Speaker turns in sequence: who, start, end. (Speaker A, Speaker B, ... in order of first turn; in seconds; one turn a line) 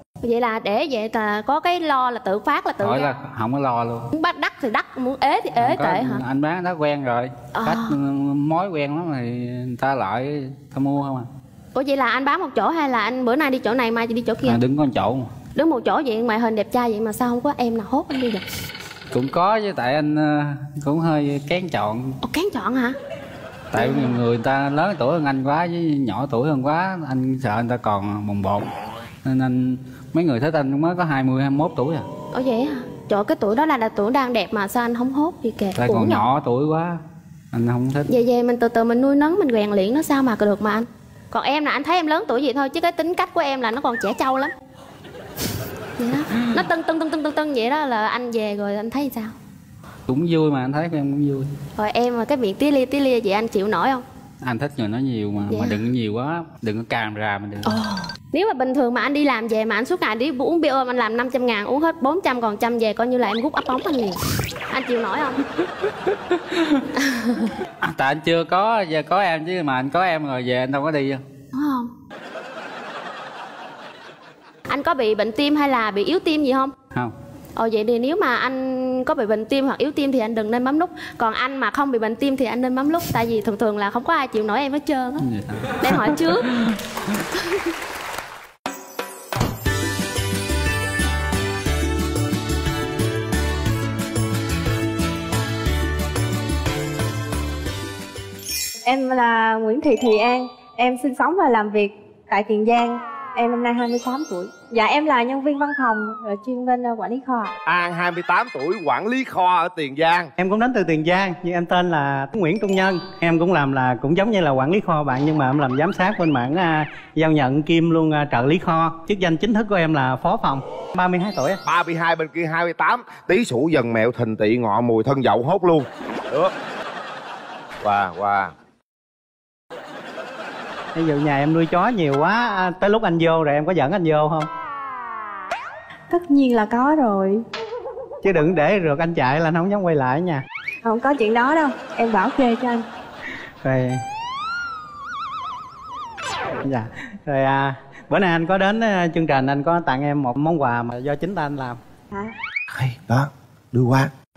Speaker A: 0.2-3.2
Speaker B: 2.8-4.1
Speaker A: 4.1-6.2
Speaker B: 5.6-11.3
Speaker A: 7.5-8.0
Speaker A: 11.7-14.6
Speaker B: 14.4-15.3
Speaker A: 15.6-18.5
Speaker B: 19.1-22.2
Speaker A: 22.2-22.9
Speaker B: 23.7-28.7
Speaker A: 23.8-24.2
Speaker B: 29.2-32.0
Speaker A: 32.3-36.2
Speaker B: 35.8-37.0
Speaker B: 37.5-38.1
Speaker A: 38.1-44.5
Speaker A: 46.0-49.3
Speaker B: 46.4-46.6
Speaker B: 50.1-51.5
Speaker A: 51.8-54.0
Speaker B: 54.4-57.8
Speaker A: 55.5-55.9
Speaker A: 57.6-64.2
Speaker A: 64.7-65.4
Speaker B: 65.6-66.8
Speaker A: 67.0-67.5
Speaker B: 67.8-71.2
Speaker A: 71.5-71.9
Speaker A: 74.7-76.7
Speaker A: 77.5-85.3
Speaker B: 85.2-87.2
Speaker A: 85.8-86.5
Speaker C: 98.8-107.5
Speaker D: 107.7-110.3
Speaker E: 110.4-121.6
Speaker D: 121.7-126.5
Speaker D: 127.8-128.5
Speaker E: 130.9-134.5
Speaker C: 136.1-137.4
Speaker E: 138.2-140.4
Speaker C: 140.8-142.8
Speaker E: 143.6-144.0
Speaker E: 146.6-151.8
Speaker D: 152.7-154.1